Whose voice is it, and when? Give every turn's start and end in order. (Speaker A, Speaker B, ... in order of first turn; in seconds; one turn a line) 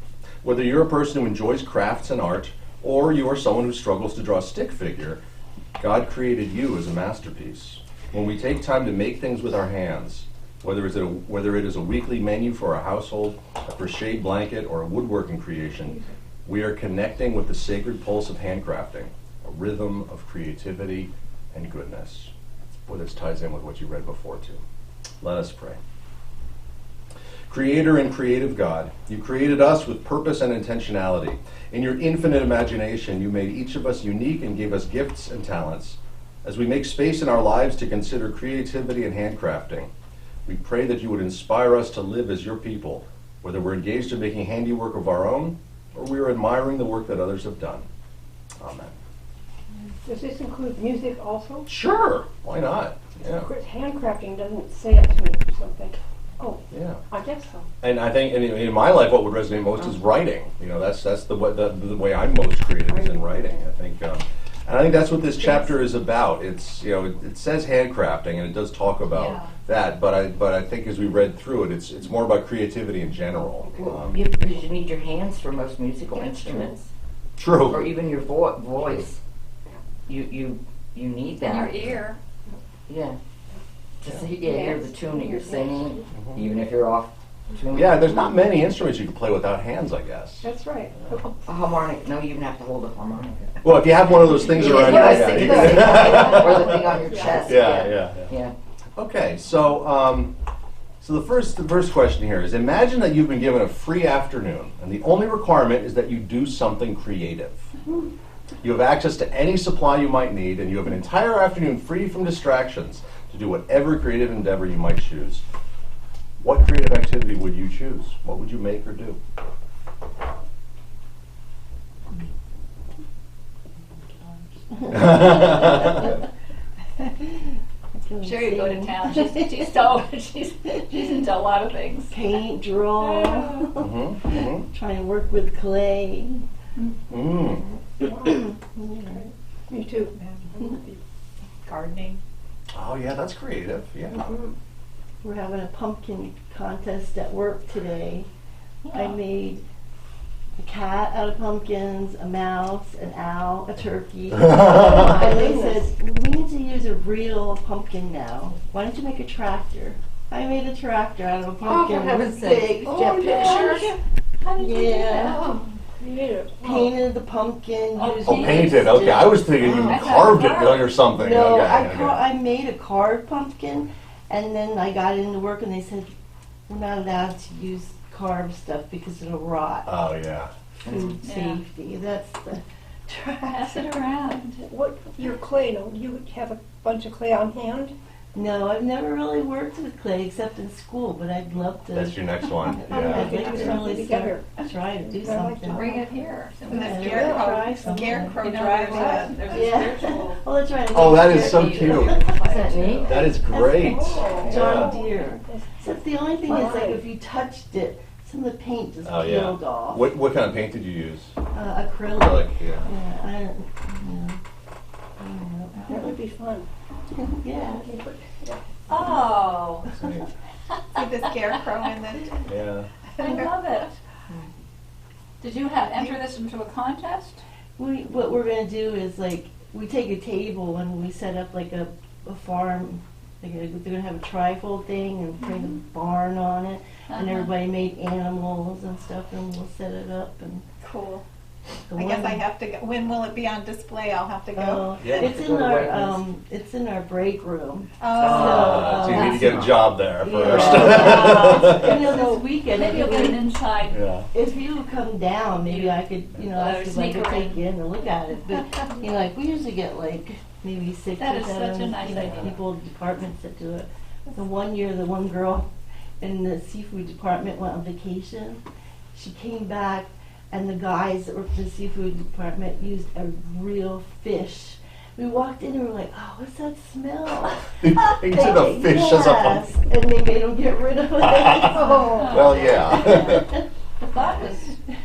Speaker A: 0.4-5.2
Speaker A: 5.8-22.3
Speaker A: 22.9-24.6
Speaker A: 25.2-25.8
Speaker A: 27.5-39.9
Speaker A: 40.5-47.9
Speaker A: 48.6-49.0
Speaker B: 50.0-51.7
Speaker A: 51.7-53.5
Speaker B: 53.4-57.7
Speaker A: 56.7-57.0
Speaker A: 57.8-74.3
Speaker C: 69.1-69.5
Speaker D: 73.7-76.9
Speaker A: 77.4-77.9
Speaker D: 77.6-79.2
Speaker D: 80.1-82.0
Speaker E: 81.4-82.2
Speaker D: 82.9-83.2
Speaker D: 84.0-88.1
Speaker B: 85.2-85.7
Speaker A: 86.1-86.4
Speaker A: 87.7-90.5
Speaker B: 90.4-91.3
Speaker D: 91.4-93.6
Speaker A: 93.6-96.9
Speaker D: 94.2-98.5
Speaker B: 94.8-96.5
Speaker B: 97.1-97.4
Speaker A: 97.4-98.3
Speaker A: 99.0-100.3
Speaker A: 101.0-107.7
Speaker A: 108.6-115.4
Speaker A: 116.4-119.2
Speaker F: 124.7-126.2
Speaker A: 124.9-125.9
Speaker F: 128.0-129.7
Speaker E: 128.2-132.2
Speaker F: 132.1-136.4
Speaker E: 133.0-133.7
Speaker A: 133.8-134.7
Speaker A: 137.1-137.7
Speaker F: 137.6-139.3
Speaker B: 138.0-138.4
Speaker B: 139.7-140.1
Speaker C: 140.2-141.0
Speaker C: 141.7-142.2
Speaker A: 142.7-144.3
Speaker F: 144.1-144.5
Speaker F: 145.2-148.3
Speaker F: 148.9-149.6
Speaker F: 150.6-163.9
Speaker B: 154.6-155.9
Speaker D: 161.6-163.9
Speaker B: 162.8-163.9
Speaker E: 164.4-165.6
Speaker F: 164.5-165.6
Speaker B: 166.0-166.9
Speaker F: 166.6-170.4
Speaker E: 168.0-170.9
Speaker A: 168.2-172.2
Speaker F: 171.1-176.1
Speaker F: 176.7-179.9
Speaker A: 179.9-180.5
Speaker F: 180.8-184.4
Speaker D: 180.8-181.2
Speaker E: 181.2-181.6
Speaker E: 183.5-184.6
Speaker B: 184.7-187.9
Speaker F: 188.3-196.0
Speaker A: 191.9-193.9
Speaker B: 192.9-196.9
Speaker E: 195.7-197.4
Speaker C: 196.7-199.8
Speaker F: 196.7-210.1
Speaker E: 198.1-200.4
Speaker A: 200.9-202.2
Speaker E: 200.9-203.4
Speaker D: 202.4-203.2
Speaker A: 203.0-204.9
Speaker B: 203.8-207.1
Speaker E: 204.3-205.1
Speaker A: 209.0-211.3
Speaker F: 211.5-214.4
Speaker A: 212.1-212.9
Speaker F: 215.2-216.2
Speaker B: 215.9-216.7
Speaker F: 217.1-217.9
Speaker B: 217.5-218.6
Speaker E: 218.9-219.9
Speaker A: 219.9-220.3
Speaker C: 220.9-222.5
Speaker A: 222.4-222.9
Speaker C: 223.2-223.5
Speaker E: 223.2-224.0
Speaker E: 225.4-227.4
Speaker F: 227.8-240.7
Speaker E: 237.1-237.5
Speaker C: 240.8-241.2
Speaker F: 241.9-242.4
Speaker C: 241.9-245.3
Speaker F: 244.5-253.5
Speaker A: 245.0-245.3
Speaker D: 245.2-246.2
Speaker C: 248.0-248.9
Speaker D: 248.1-249.9
Speaker A: 248.5-252.2
Speaker E: 249.1-249.4
Speaker D: 250.5-250.9
Speaker E: 250.7-254.0
Speaker A: 253.9-254.2
Speaker F: 254.3-265.7
Speaker E: 255.6-257.6
Speaker E: 261.2-262.6
Speaker A: 262.1-262.4
Speaker F: 266.2-268.6
Speaker F: 269.1-283.6
Speaker A: 277.8-279.7
Speaker A: 281.4-283.5
Speaker B: 281.7-282.4
Speaker E: 282.1-282.7
Speaker E: 284.0-284.8